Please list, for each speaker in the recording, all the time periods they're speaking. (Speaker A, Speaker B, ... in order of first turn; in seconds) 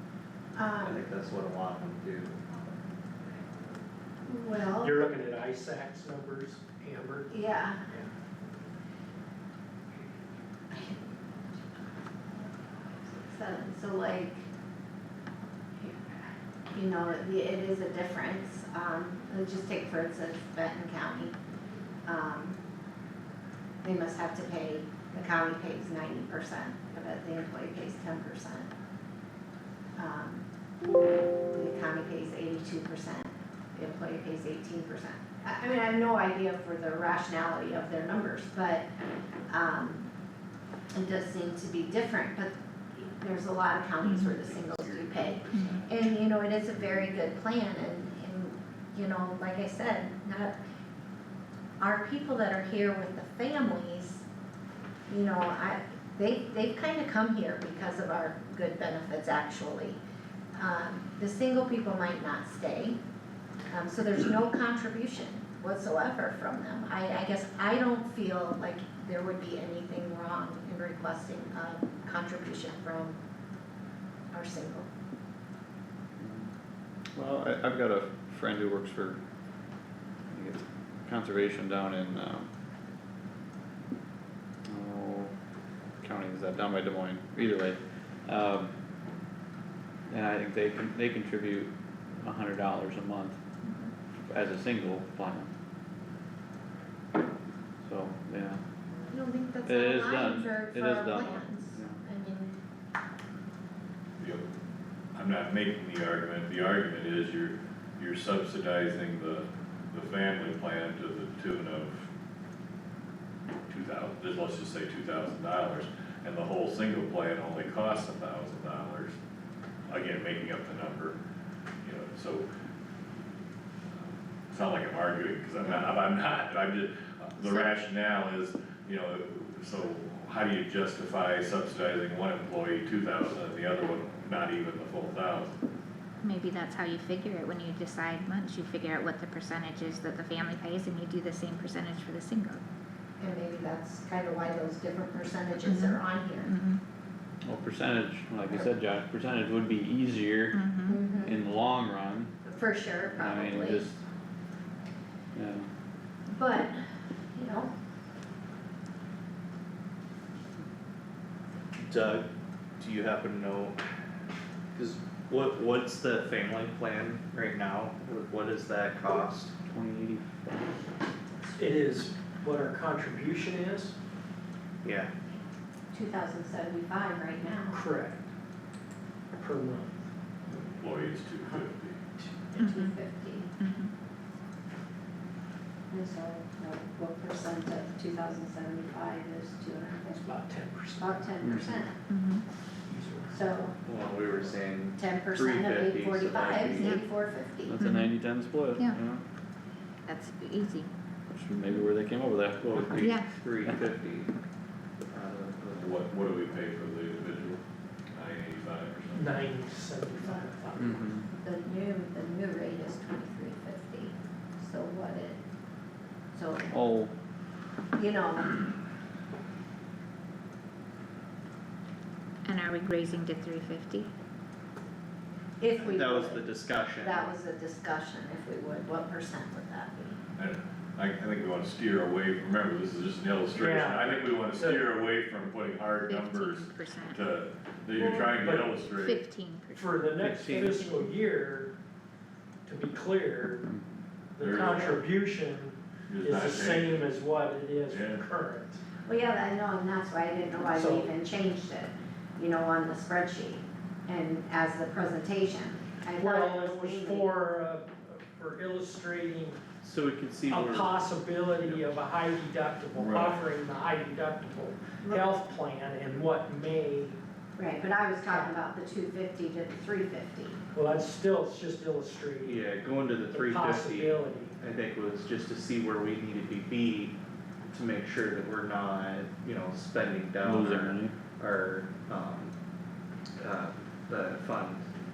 Speaker A: 0.6-1.0, 4.2-5.2, 7.3-7.8, 10.7-14.5, 15.8-16.2, 16.7-21.4, 22.1-22.6, 23.8-28.7, 30.0-30.5, 31.5-38.9, 39.5-40.1, 40.9-50.6, 51.8-54.2, 55.1-60.0, 60.6-63.0, 63.7-73.2, 74.3-74.9, 99.1-102.6, 143.2-146.5, 150.9-151.3, 152.4-153.9, 156.3-156.8, 157.3-157.7, 175.9-177.8, 182.6-183.5, 185.9-190.4, 190.9-192.0, 193.3-193.8, 195.0-197.8, 210.2-210.5, 211.3-215.4, 216.3-216.8, 217.9-218.7, 225.6-226.5, 227.0-230.2, 249.1-257.4, 265.0-265.3, 267.6-270.6
Speaker B: 0.8-2.4, 44.3-46.2, 161.8-163.8, 164.8-169.6, 174.8-175.1, 193.8-197.0, 202.6-204.3, 205.1-205.9, 225.8-227.3, 240.2-240.7, 259.8-260.9, 272.4-277.2, 277.7-282.5, 283.4-284.8
Speaker C: 4.8-7.3, 171.6-173.9, 177.7-178.2, 179.4-180.0, 190.2-191.4, 192.9-193.5, 209.2-211.0, 233.6-234.9, 238.0-238.7, 239.7-241.7, 242.7-243.7, 244.3-248.8, 250.7-251.1, 256.2-259.6, 260.5-267.2, 268.2-268.5, 270.7-272.6, 273.3-274.6
Speaker D: 44.0-44.3, 127.4-127.8, 136.2-142.6, 145.6-146.8, 150.5-151.0, 182.6-183.0, 183.6-183.9, 192.1-192.4, 196.8-197.1, 197.8-198.1, 200.1-200.9, 203.0-203.3, 222.4-224.1, 236.0-237.3, 238.8-239.9, 240.8-241.0
Speaker E: 76.2-76.5, 77.1-79.2, 80.3-82.5, 84.7-85.3, 86.0-88.7, 90.1-93.4, 94.3-95.5, 97.8-98.6, 99.7-102.0, 147.4-150.6, 151.2-152.3, 153.1-154.0, 155.3-155.7, 169.7-170.8, 191.4-191.9, 197.7-199.2, 201.3-203.0, 210.8-211.3, 216.7-217.1, 243.7-244.0, 280.4-281.1
Speaker F: 104.2-104.5, 105.1-112.1, 113.7-119.2, 119.9-121.2, 121.8-122.5, 123.9-135.6, 180.4-182.0, 205.7-209.5, 230.4-239.2, 244.4-245.1, 246.1-247.1, 247.9-248.2, 263.0-263.4